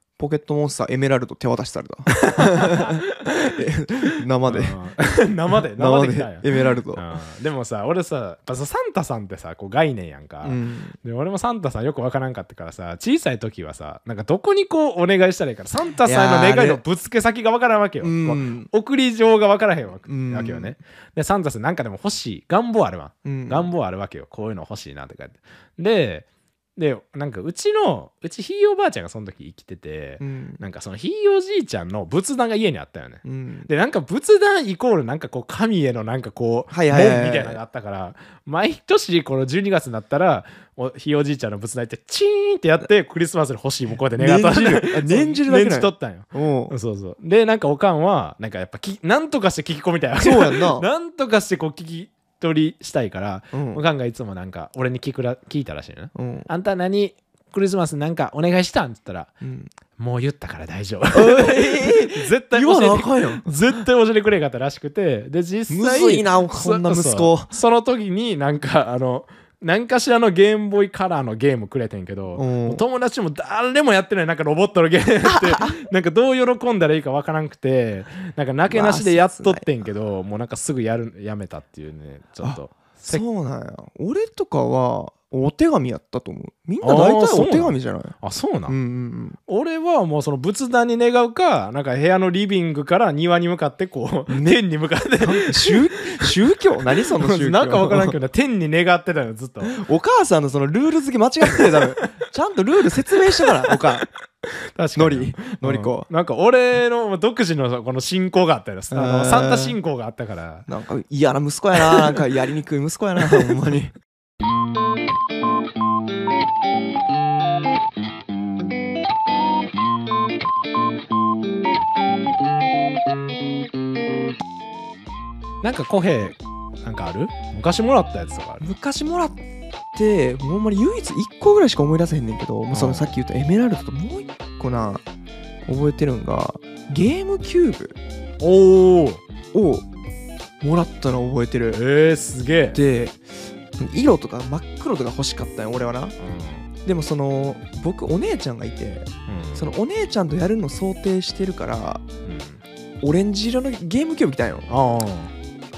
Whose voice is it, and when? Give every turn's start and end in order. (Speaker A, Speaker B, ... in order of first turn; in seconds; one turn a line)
Speaker A: 0.2-4.8
Speaker B: 2.2-3.4
Speaker B: 4.5-59.3
Speaker A: 5.5-7.0
Speaker A: 10.4-11.0
Speaker A: 16.0-16.8
Speaker A: 18.0-18.7
Speaker A: 20.1-20.8
Speaker A: 23.2-23.7
Speaker A: 30.2-30.6
Speaker A: 33.2-33.7
Speaker A: 36.7-37.6
Speaker A: 44.1-46.8
Speaker A: 50.2-50.9
Speaker A: 53.5-53.8
Speaker A: 56.1-56.5
Speaker A: 59.4-59.7
Speaker B: 60.0-83.2
Speaker A: 61.1-63.6
Speaker A: 65.7-67.5
Speaker A: 72.3-72.8
Speaker A: 75.2-75.8
Speaker A: 78.7-79.7
Speaker A: 82.4-88.2
Speaker B: 86.8-88.8
Speaker A: 88.7-89.4
Speaker B: 89.5-96.4
Speaker A: 94.3-94.6
Speaker A: 95.2-98.2
Speaker B: 97.1-99.8
Speaker A: 99.6-104.0
Speaker B: 101.8-102.1
Speaker B: 104.7-110.7
Speaker A: 105.0-106.1
Speaker A: 108.9-109.8
Speaker A: 110.7-114.0
Speaker B: 125.6-128.7
Speaker A: 128.6-129.4
Speaker A: 129.9-135.0
Speaker B: 132.7-133.1
Speaker A: 135.7-138.0
Speaker B: 138.4-139.2
Speaker A: 139.5-139.8
Speaker A: 140.6-141.8
Speaker B: 141.7-142.8
Speaker A: 142.7-143.2
Speaker A: 143.8-146.1
Speaker B: 146.2-146.7
Speaker A: 146.8-152.0
Speaker B: 149.3-149.7
Speaker B: 152.2-152.6
Speaker A: 153.0-154.7
Speaker B: 154.7-155.3